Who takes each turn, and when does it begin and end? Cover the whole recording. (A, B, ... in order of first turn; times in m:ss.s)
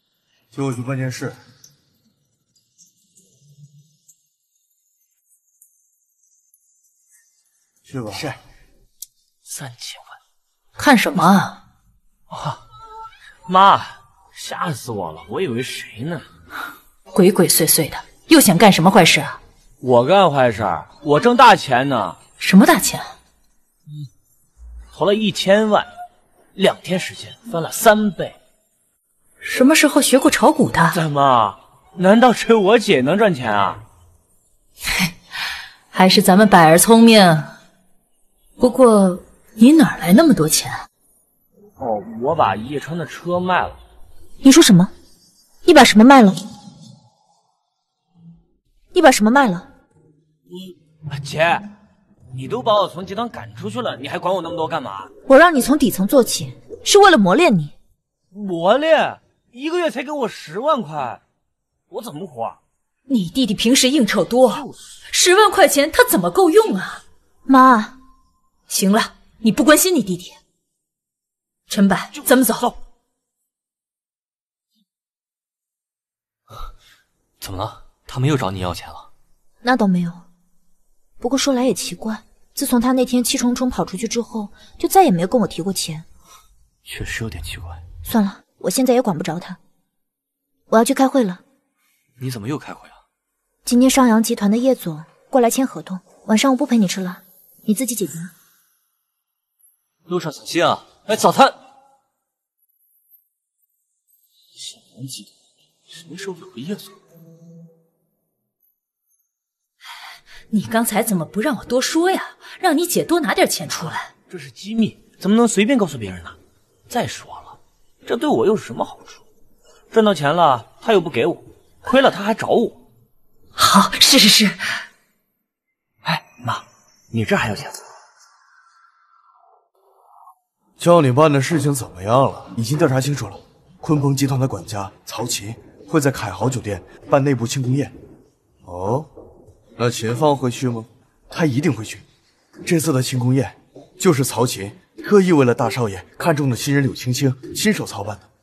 0:00.5-0:01.4 A
0:07.9-0:08.4 A
0:09.5-0:10.2 B
0:10.8-0:11.6 C
0:12.3-0:12.6 B
0:13.4-0:16.3 B
0:17.1-0:19.4 C
0:19.8-0:22.2 B
0:22.4-0:23.1 C
0:24.9-0:25.9 B
0:26.6-0:28.4 B
0:29.4-0:31.0 C
0:30.9-0:33.8 B
0:35.9-0:37.5 C
0:38.6-0:40.8 C
0:41.8-0:43.8 B
0:44.4-0:44.9 D
0:45.6-0:46.4 D
0:48.9-0:49.7 D
0:50.5-0:51.7 B
0:52.3-0:55.1 B
0:55.3-0:57.7 D
0:58.3-1:01.2 B
1:01.9-1:02.6 B
1:03.1-1:07.0 C
1:07.5-1:08.0 D
1:08.7-1:10.4 C
1:11.7-1:12.7 C
1:12.2-1:12.8 B
1:17.4-1:19.1 E
1:19.6-1:20.2 D
1:21.2-1:26.1 D
1:26.9-1:27.8 E
1:28.0-1:29.6 D
1:30.7-1:31.4 D
1:32.2-1:33.0 E
1:33.6-1:38.3 D
1:40.1-1:41.6 E
1:44.9-1:45.3 B
1:45.9-1:47.0 B
1:50.5-1:54.1 C
1:54.3-1:56.4 B
1:56.9-1:59.2 B
1:59.9-2:02.8 B
2:03.6-2:04.8 C
2:06.0-2:07.8 B
2:10.8-2:17.9 A
2:18.6-2:19.1 A
2:19.8-2:22.0 A
2:22.6-2:28.3 A